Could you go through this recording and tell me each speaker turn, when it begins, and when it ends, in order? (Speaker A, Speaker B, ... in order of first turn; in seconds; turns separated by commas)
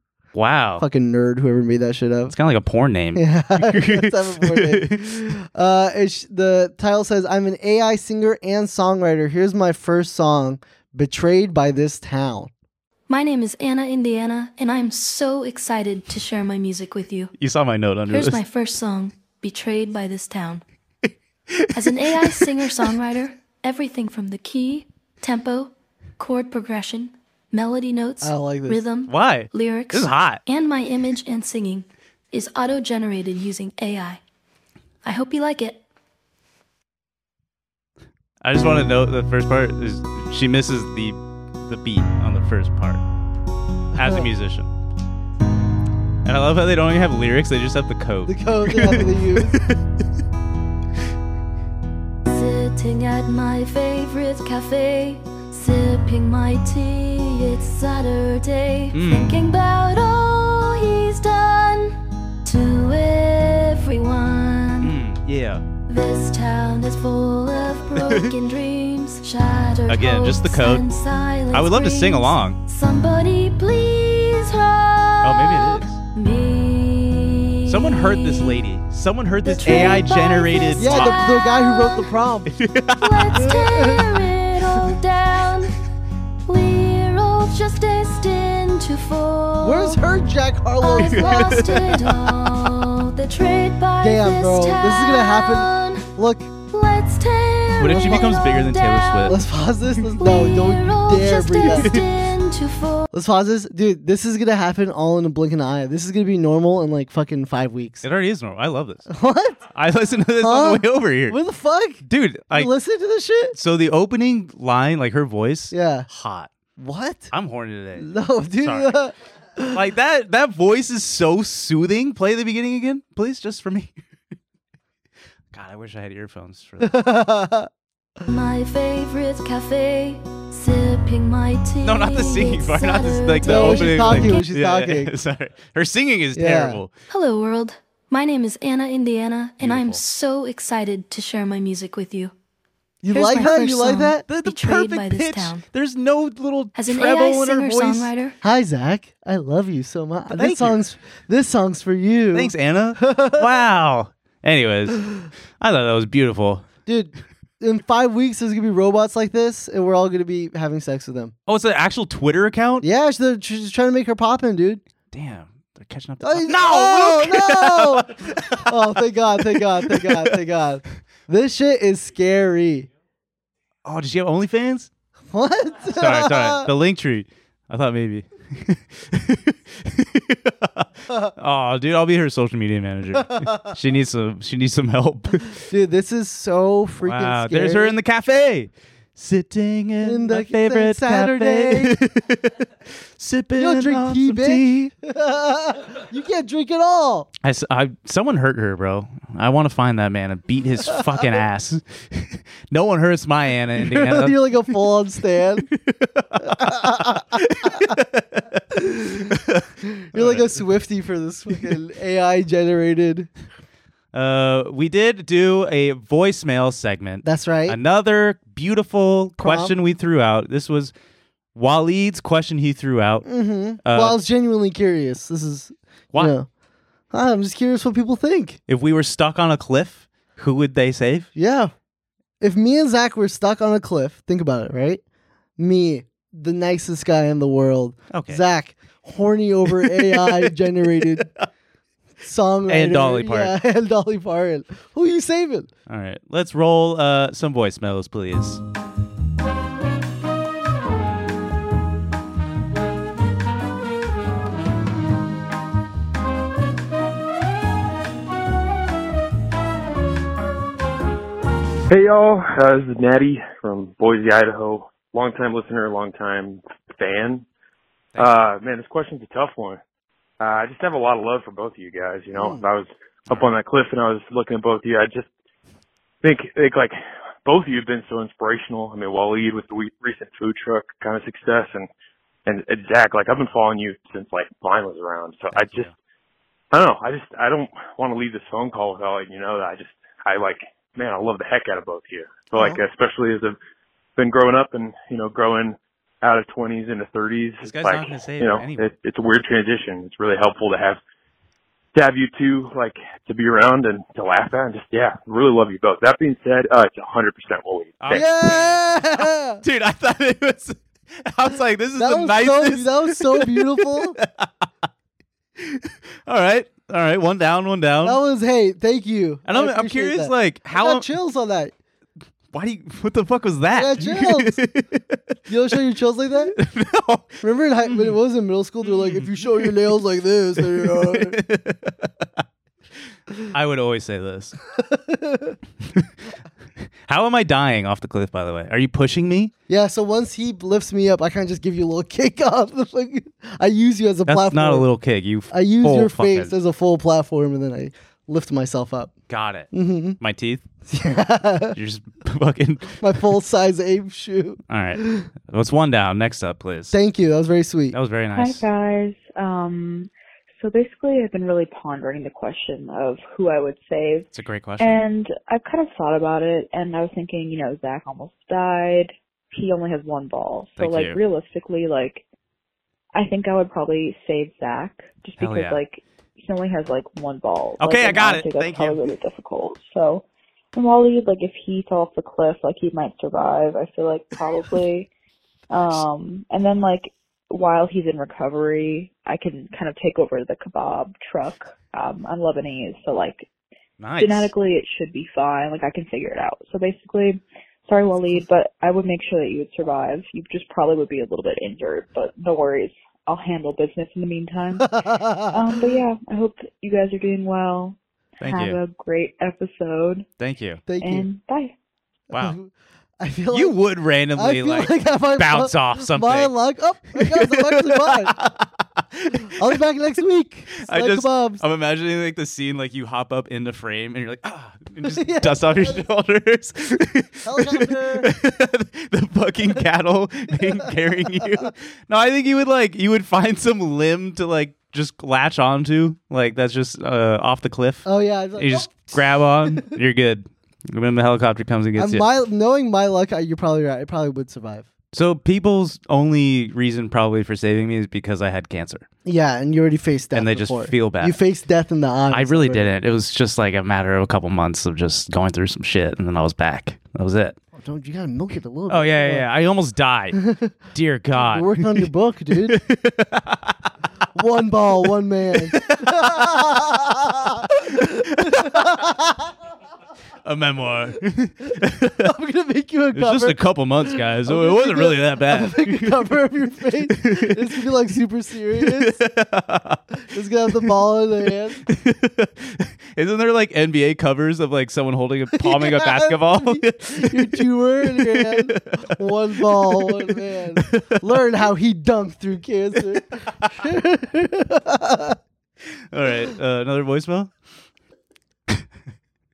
Speaker A: 0.3-0.8, Speaker B: 0.8-2.3, Speaker A: 2.3-5.3, Speaker B: 3.1-12.5, Speaker C: 13.1-17.3, Speaker A: 17.4-18.4, Speaker C: 18.1-20.6, Speaker A: 21.5-22.3, Speaker C: 21.7-34.2, Speaker B: 28.2-28.8, Speaker A: 29.1-30.4, Speaker C: 35.0-35.8, Speaker A: 38.4-43.0, Speaker A: 43.9-44.7, Speaker B: 44.0-44.2, Speaker A: 46.2-49.8, Speaker B: 48.3-49.6, Speaker C: 52.3-65.0, Speaker A: 58.9-59.4, Speaker A: 64.8-65.6, Speaker C: 65.9-78.7, Speaker A: 68.0-68.3, Speaker A: 69.9-70.8, Speaker A: 71.5-72.6, Speaker A: 75.2-76.0, Speaker A: 77.7-81.2, Speaker C: 79.5-82.1, Speaker B: 79.6-80.0, Speaker B: 80.8-82.5, Speaker A: 82.5-83.5, Speaker C: 83.0-85.8, Speaker B: 83.4-84.0, Speaker C: 86.5-90.0, Speaker B: 89.6-91.8, Speaker C: 90.8-96.1, Speaker A: 91.0-92.6, Speaker B: 94.0-96.5, Speaker C: 96.6-99.4, Speaker A: 97.8-99.4, Speaker B: 97.9-98.4, Speaker B: 99.3-101.9, Speaker C: 100.2-103.1, Speaker A: 101.7-102.0, Speaker B: 103.1-108.0, Speaker A: 108.0-109.1, Speaker B: 109.1-109.7, Speaker A: 109.7-111.4, Speaker B: 110.4-113.6, Speaker A: 112.1-112.7, Speaker A: 113.5-116.5, Speaker B: 115.7-116.1, Speaker B: 116.8-117.3, Speaker A: 117.3-118.1, Speaker B: 118.0-119.8, Speaker A: 118.6-119.0, Speaker A: 119.7-123.9, Speaker A: 125.5-127.0, Speaker B: 126.8-127.7, Speaker C: 128.3-134.5, Speaker A: 131.8-136.9, Speaker B: 133.4-135.1, Speaker B: 136.3-136.8, Speaker C: 137.1-142.3, Speaker A: 139.6-140.0, Speaker B: 143.0-144.2, Speaker C: 143.1-145.6, Speaker A: 144.3-148.1, Speaker C: 146.8-148.4, Speaker B: 148.4-153.5, Speaker A: 150.3-150.8, Speaker A: 152.3-156.7, Speaker B: 156.9-161.3, Speaker A: 161.5-162.9, Speaker B: 162.8-164.8, Speaker A: 165.1-168.7, Speaker B: 166.2-172.9, Speaker A: 169.5-170.3, Speaker A: 173.8-174.9, Speaker B: 175.3-176.7, Speaker A: 176.0-180.9, Speaker A: 181.4-185.6, Speaker B: 183.2-183.7, Speaker B: 185.7-188.0, Speaker A: 187.0-192.6, Speaker B: 190.0-192.0, Speaker A: 193.2-194.9, Speaker B: 193.6-197.3, Speaker A: 197.4-204.4, Speaker B: 203.8-205.7, Speaker A: 205.8-208.5, Speaker B: 206.4-207.8, Speaker B: 208.7-209.3, Speaker A: 209.3-210.6, Speaker B: 209.9-213.3, Speaker A: 214.1-220.9, Speaker B: 217.2-217.8, Speaker B: 219.4-219.7, Speaker A: 221.6-223.3, Speaker B: 223.2-226.5, Speaker A: 223.8-224.2, Speaker B: 227.1-228.6, Speaker A: 228.7-231.3, Speaker B: 231.4-231.7, Speaker B: 232.4-235.0, Speaker B: 235.6-241.3, Speaker A: 238.1-238.4, Speaker A: 239.8-240.5, Speaker B: 242.2-245.7, Speaker A: 242.7-243.5, Speaker A: 245.9-248.6, Speaker D: 261.9-267.5, Speaker A: 268.1-268.5, Speaker D: 268.2-269.8, Speaker D: 270.4-275.3, Speaker B: 272.4-272.6, Speaker D: 276.2-281.9, Speaker D: 282.5-285.9, Speaker A: 285.5-285.9, Speaker D: 286.7-293.6, Speaker D: 294.2-301.0, Speaker A: 297.6-299.0, Speaker D: 301.9-308.2, Speaker A: 308.0-314.5, Speaker B: 308.1-309.6, Speaker B: 312.0-314.2, Speaker A: 315.6-318.2, Speaker B: 318.0-321.7, Speaker A: 319.5-321.1, Speaker A: 322.5-325.2, Speaker B: 323.7-324.6, Speaker B: 325.5-326.6, Speaker A: 326.6-328.2, Speaker B: 327.4-331.4, Speaker A: 328.8-329.8, Speaker A: 330.6-332.1, Speaker A: 333.5-334.6, Speaker B: 334.8-335.6, Speaker A: 337.1-339.5, Speaker B: 339.7-344.9, Speaker A: 344.3-346.5, Speaker B: 345.5-349.1, Speaker A: 349.3-349.7, Speaker B: 349.7-350.2, Speaker A: 350.2-350.6, Speaker B: 350.9-351.8, Speaker A: 351.8-353.0, Speaker B: 353.0-355.3, Speaker A: 354.7-356.9, Speaker B: 356.9-357.9, Speaker A: 357.9-358.7, Speaker E: 358.4-364.3, Speaker A: 364.3-365.1, Speaker E: 364.8-372.2, Speaker A: 370.8-371.2, Speaker E: 373.1-385.1, Speaker A: 375.4-375.8, Speaker A: 377.8-379.0, Speaker E: 385.7-393.5, Speaker A: 394.0-394.5, Speaker E: 394.2-410.3, Speaker B: 405.0-405.6, Speaker A: 408.4-408.8, Speaker A: 410.4-410.8, Speaker B: 410.9-411.3, Speaker E: 411.0-411.8, Speaker B: 412.3-413.8, Speaker A: 413.5-416.5, Speaker B: 414.4-418.4, Speaker A: 417.2-419.7, Speaker B: 419.5-421.6, Speaker A: 420.8-442.3, Speaker B: 425.1-426.0, Speaker B: 427.4-428.3, Speaker B: 430.6-431.7, Speaker B: 438.1-439.9, Speaker B: 442.0-444.9, Speaker A: 445.1-449.1, Speaker B: 449.2-452.9, Speaker A: 450.3-451.4, Speaker A: 452.3-457.6, Speaker B: 457.8-459.4, Speaker A: 458.9-460.4, Speaker B: 460.4-460.7, Speaker A: 460.9-462.1, Speaker B: 461.4-462.8, Speaker A: 462.7-463.7, Speaker B: 464.4-469.5, Speaker A: 465.7-466.3, Speaker A: 468.4-468.8, Speaker A: 470.4-472.3, Speaker B: 472.2-479.2, Speaker A: 473.1-476.2, Speaker A: 477.1-477.8, Speaker A: 478.8-480.0, Speaker B: 480.3-481.8, Speaker A: 481.9-491.3, Speaker B: 485.5-495.4, Speaker A: 496.1-497.5